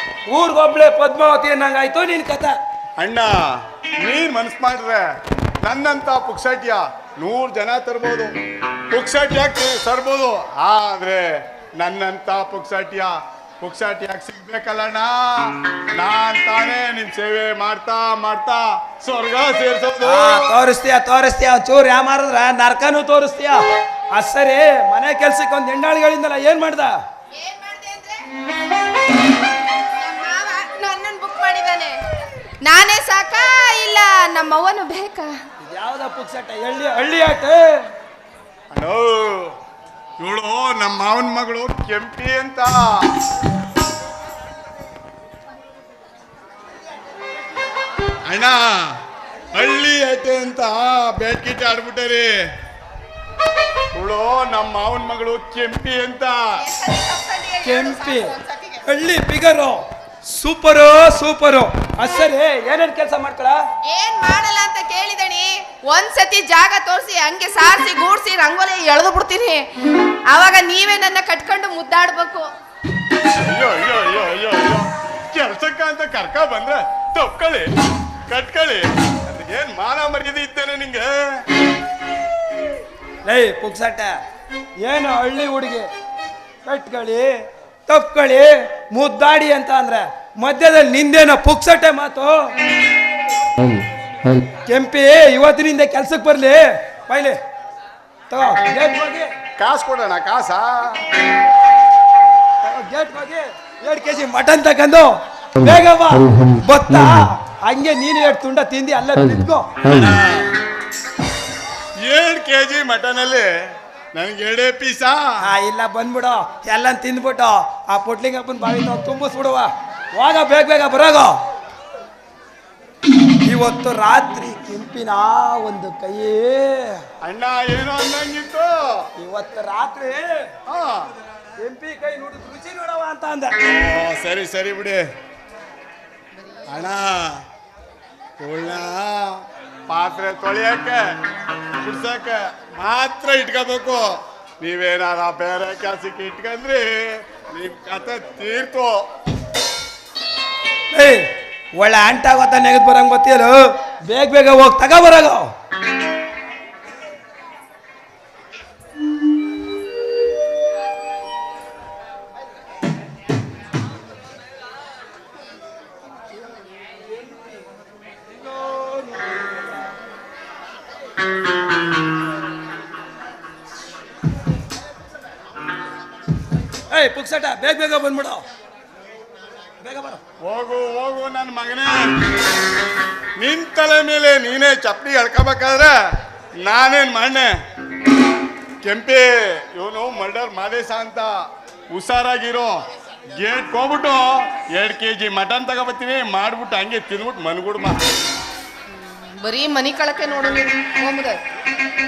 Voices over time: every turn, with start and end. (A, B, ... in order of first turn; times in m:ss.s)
0:00.3-0:02.5 A
0:03.0-0:03.3 B
0:04.0-0:05.0 B
0:05.6-0:08.3 B
0:08.9-0:11.2 B
0:11.8-0:20.4 B
0:20.0-0:23.6 A
0:24.1-0:27.0 A
0:27.3-0:28.2 C
0:29.9-0:32.0 C
0:32.6-0:35.3 C
0:35.6-0:37.7 A
0:38.7-0:39.5 B
0:40.2-0:43.1 B
0:48.3-0:48.6 B
0:49.5-0:52.3 B
0:53.9-0:56.6 B
0:56.6-0:58.8 C
0:57.6-1:03.6 A
1:03.8-1:09.7 C
1:10.3-1:12.5 C
1:13.4-1:17.7 B
1:18.3-1:21.4 B
1:23.2-1:24.2 A
1:24.8-1:25.9 A
1:26.6-1:27.3 A
1:27.9-1:32.5 A
1:34.7-1:37.4 A
1:38.3-1:39.3 A
1:39.6-1:41.0 B
1:42.6-1:49.7 A
1:49.8-1:50.5 B
1:52.0-1:53.5 B
1:54.1-1:55.2 B
1:55.4-2:01.4 A
2:03.4-2:07.0 A
2:07.2-2:09.1 B
2:09.2-2:10.5 A
2:10.7-2:11.1 B
2:11.6-2:13.5 A
2:13.6-2:15.0 B
2:16.7-2:17.4 B
2:18.4-2:21.0 B
2:21.8-2:29.0 B
2:30.9-2:35.5 A
2:48.4-2:49.6 A
2:56.9-2:58.4 A
2:59.8-3:00.2 A
3:00.4-3:02.1 B
3:03.4-3:05.9 B
3:06.6-3:07.5 B
3:08.8-3:11.3 B
3:11.9-3:12.8 B
3:13.4-3:18.0 B
3:18.9-3:21.4 C